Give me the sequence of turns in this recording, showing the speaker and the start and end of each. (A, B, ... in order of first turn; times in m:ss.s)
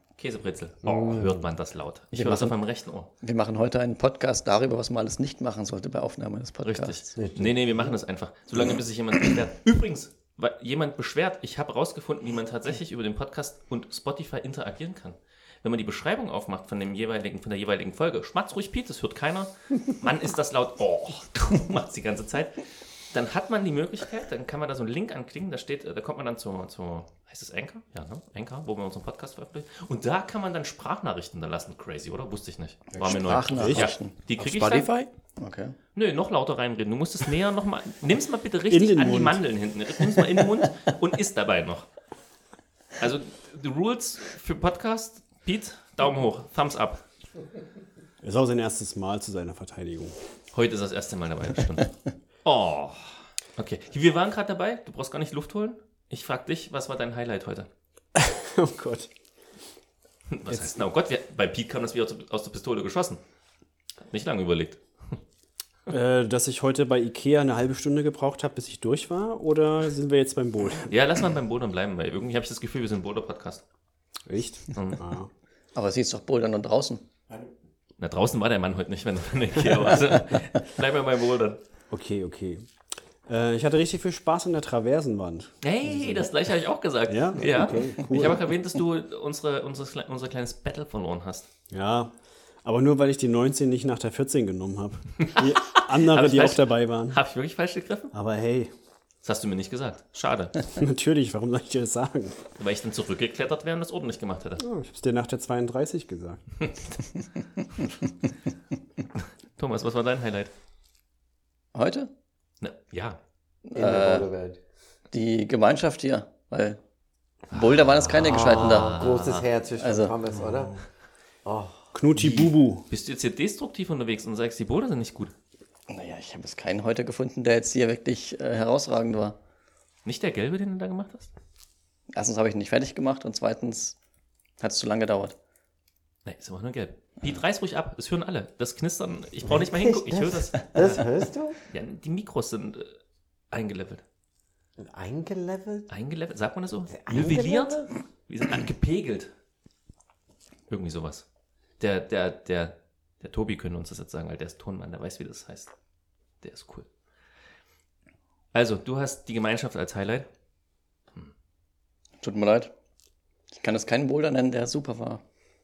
0:00.2-0:03.1 A
0:00.8-0:01.4 B
0:02.1-0:02.6 C
0:03.2-0:07.1 C
0:06.6-0:34.9 A
0:07.1-0:07.9 B
0:32.9-0:35.8 C
0:33.5-0:33.9 D
0:35.9-0:41.9 A
0:38.7-0:39.4 D
0:43.0-0:47.0 A
0:48.2-0:50.2 D
0:50.5-0:57.7 A
0:58.1-0:59.1 D
1:00.3-1:03.2 A
1:04.0-1:05.2 A
1:05.9-1:10.9 D
1:10.9-1:13.6 A
1:14.2-1:15.3 D
1:14.7-1:15.0 A
1:15.7-1:17.0 C
1:18.0-1:21.6 A
1:21.9-1:22.7 D
1:23.3-1:26.3 D
1:25.6-1:31.4 A
1:27.1-1:28.4 D
1:31.7-1:32.1 D
1:32.6-1:37.2 D
1:35.3-1:38.1 A
1:38.1-1:38.7 D
1:39.2-1:40.6 A
1:40.7-1:42.5 D
1:42.6-1:44.6 A
1:44.6-1:46.5 D
1:46.6-1:46.9 A
1:49.6-1:50.5 A
1:51.7-1:52.1 C
1:52.6-1:53.2 A
1:53.7-1:54.3 C
1:53.7-1:54.6 B
1:55.1-1:56.8 C
1:57.5-1:59.0 C
1:57.5-1:59.4 A
1:58.2-2:00.8 B
1:59.8-2:00.2 C
2:00.4-2:00.8 D
2:01.4-2:01.9 B
2:01.9-2:02.9 D
2:02.2-2:05.3 A
2:05.9-2:09.4 C
2:10.0-2:11.3 A
2:12.1-2:14.0 C
2:14.6-2:15.4 C
2:16.2-2:21.1 A
2:19.4-2:21.6 B
2:21.7-2:23.0 A
2:23.5-2:24.0 A
2:24.8-2:25.9 B
2:25.9-2:29.3 A
2:26.9-2:27.8 B
2:30.7-2:31.2 A
2:31.8-2:35.7 A
2:36.4-2:36.9 A
2:38.5-2:40.3 A
2:42.2-2:42.7 C
2:43.5-2:45.2 C